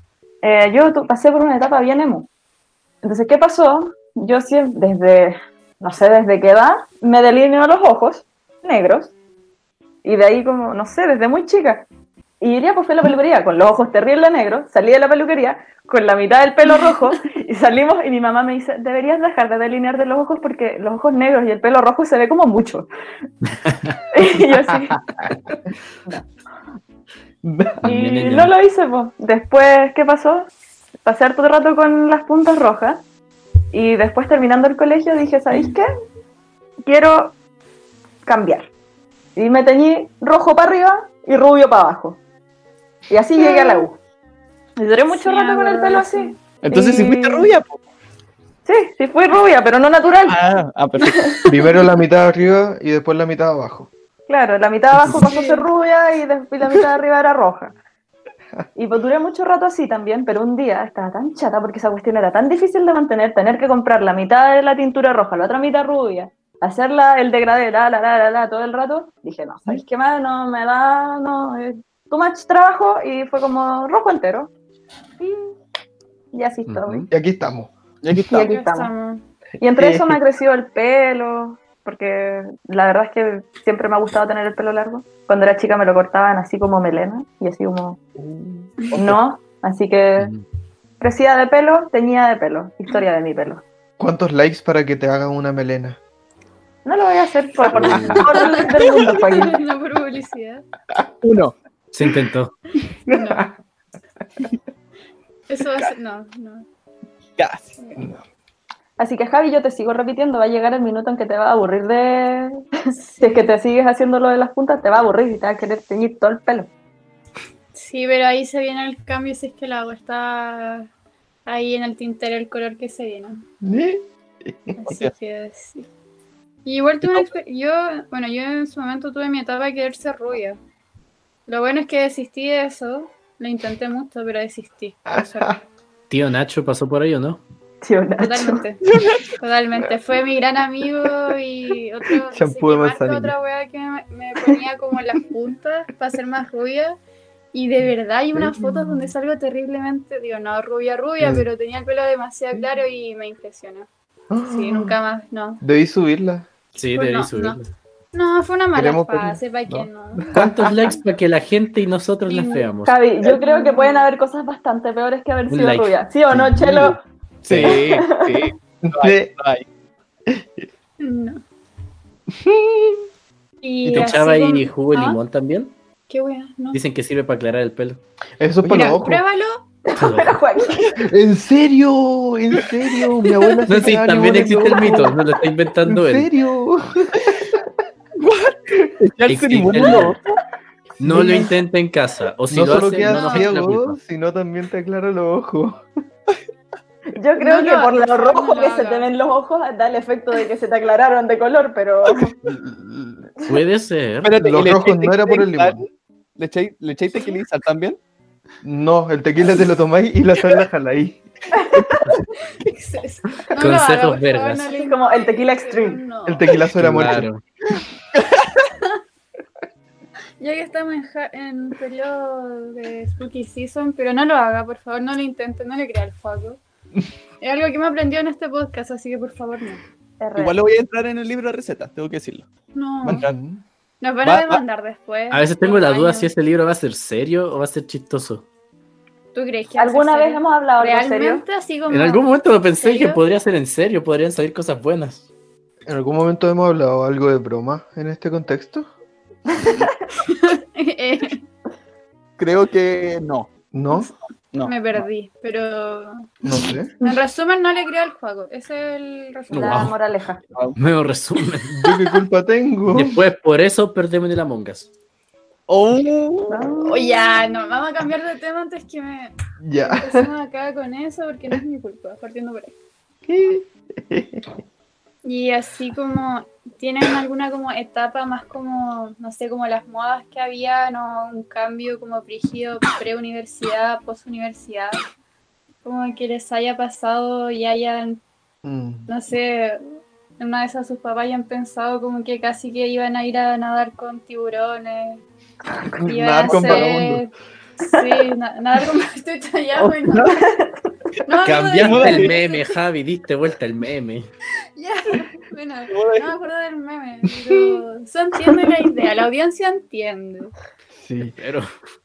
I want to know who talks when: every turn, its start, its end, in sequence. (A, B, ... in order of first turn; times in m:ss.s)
0:00.4-0:02.3 A
0:03.0-0:09.1 A
0:10.0-0:11.9 A
0:12.4-0:22.9 A
0:23.7-0:24.0 B
0:24.1-0:25.0 A
0:25.2-0:25.6 C
0:27.4-0:27.8 C
0:27.8-0:28.5 B
0:27.8-0:30.5 A
0:31.0-0:33.0 A
0:33.7-0:35.9 A
0:36.8-0:37.4 A
0:38.3-0:38.7 A
0:39.4-0:42.2 A
0:43.1-0:44.0 A
0:43.4-0:43.9 D
0:44.8-0:47.5 A
0:45.1-0:46.4 D
0:46.6-0:47.8 E
0:48.6-0:50.4 A
0:50.3-0:51.4 E
0:51.5-0:53.9 C
0:54.3-0:57.8 A
0:55.2-0:55.7 D
0:58.8-1:14.5 A
1:15.2-1:15.6 A
1:16.3-1:17.1 A
1:16.7-1:17.1 B
1:17.1-1:17.7 C
1:18.0-1:18.5 E
1:18.2-1:18.9 A
1:18.4-1:19.2 D
1:19.6-1:28.0 A
1:19.7-1:20.2 C
1:28.2-1:29.2 E
1:29.0-1:30.3 A
1:30.2-1:30.4 B
1:31.0-1:33.6 A
1:34.0-1:36.0 C
1:36.8-1:39.6 A
1:37.7-1:38.2 C
1:37.7-1:38.3 B
1:38.2-1:40.6 D
1:41.2-1:41.6 E
1:41.9-1:42.5 B
1:43.1-1:43.5 D
1:43.1-1:43.4 C
1:45.5-1:46.6 D
1:47.4-1:47.7 E
1:47.8-1:48.1 D
1:49.0-1:52.6 A
1:53.0-1:53.5 D
1:53.2-1:56.7 A
1:57.7-2:00.9 D
2:01.5-2:03.4 D
2:03.6-2:04.8 C
2:04.8-2:05.9 D
2:06.6-2:10.6 D
2:11.5-2:15.6 D
2:16.1-2:17.4 B
2:17.8-2:18.6 A
2:18.2-2:27.0 D
2:18.9-2:19.2 E
2:22.3-2:23.4 C
2:27.5-2:33.9 D
2:28.4-2:29.1 C
2:31.2-2:31.5 C
2:34.3-2:35.0 C
2:34.4-2:35.6 D
2:35.6-2:36.5 C
2:36.8-2:37.7 B
2:37.0-2:37.6 D
2:38.1-2:40.4 D
2:38.7-2:40.9 C
2:40.4-2:43.0 B
2:42.3-2:42.7 D
2:42.9-2:47.0 A
2:43.2-2:44.1 D
2:45.5-2:46.7 B
2:46.3-2:46.9 C
2:47.4-2:47.8 B
2:47.5-2:49.7 E
2:47.6-2:48.5 A
2:48.8-2:49.3 C
2:51.0-2:51.4 D
2:52.3-2:53.0 C
2:53.6-2:55.2 D
2:53.9-2:55.8 B
2:56.1-2:56.8 D
2:56.7-2:58.0 B
2:58.4-2:59.2 C
2:58.6-2:59.6 D
2:59.9-3:01.1 A
3:00.0-3:00.4 B
3:01.0-3:05.2 C
3:03.7-3:06.3 B
3:05.9-3:07.7 C
3:08.2-3:10.2 E
3:09.3-3:10.2 B
3:11.0-3:11.5 C
3:11.0-3:14.0 B
3:12.5-3:15.8 C
3:13.0-3:13.5 D
3:17.1-3:22.4 A
3:17.4-3:19.1 D
3:22.4-3:23.3 C
3:23.5-3:24.3 B
3:24.2-3:25.9 E
3:24.4-3:25.8 C
3:26.4-3:28.0 E
3:28.6-3:31.2 C
3:31.5-3:31.9 A
3:32.5-3:36.6 D
3:33.6-3:34.7 B
3:34.7-3:36.0 A
3:36.3-3:37.3 C
3:36.8-3:37.4 B
3:40.4-3:46.6 D
3:47.4-3:49.8 D
3:50.2-3:50.6 A
3:50.4-3:52.5 E
3:52.7-3:53.3 D
3:53.0-3:53.4 E
3:53.1-3:53.6 C
3:54.0-3:56.3 D
3:54.2-3:54.6 E
3:55.3-3:58.4 B
3:59.3-4:03.2 D
3:59.8-4:01.4 A
4:01.9-4:05.2 B
4:05.9-4:08.9 C
4:09.6-4:09.9 A
4:10.2-4:11.4 D
4:12.4-4:13.5 E
4:13.7-4:14.1 C
4:14.5-4:14.8 E
4:14.6-4:16.3 D
4:16.4-4:16.9 C
4:17.0-4:19.9 D
4:19.5-4:19.9 B
4:19.5-4:20.4 A
4:20.8-4:21.8 B
4:21.7-4:23.2 C
4:22.9-4:24.9 B
4:25.7-4:26.7 E
4:26.5-4:27.3 A
4:26.8-4:32.7 D
4:29.6-4:30.3 C
4:33.3-4:34.5 C
4:35.2-4:45.0 D
4:45.8-4:48.2 D
4:48.6-4:49.1 C
4:49.1-4:49.8 D
4:50.4-4:55.2 D
4:55.8-4:57.2 C
4:56.1-5:00.4 D
4:56.5-4:56.8 A
5:00.1-5:00.3 E
5:00.3-5:00.9 A
5:01.2-5:02.7 D
5:01.4-5:04.3 B
5:01.8-5:02.3 E
5:04.8-5:10.5 D
5:05.9-5:06.3 E
5:10.9-5:11.4 C
5:11.2-5:11.7 B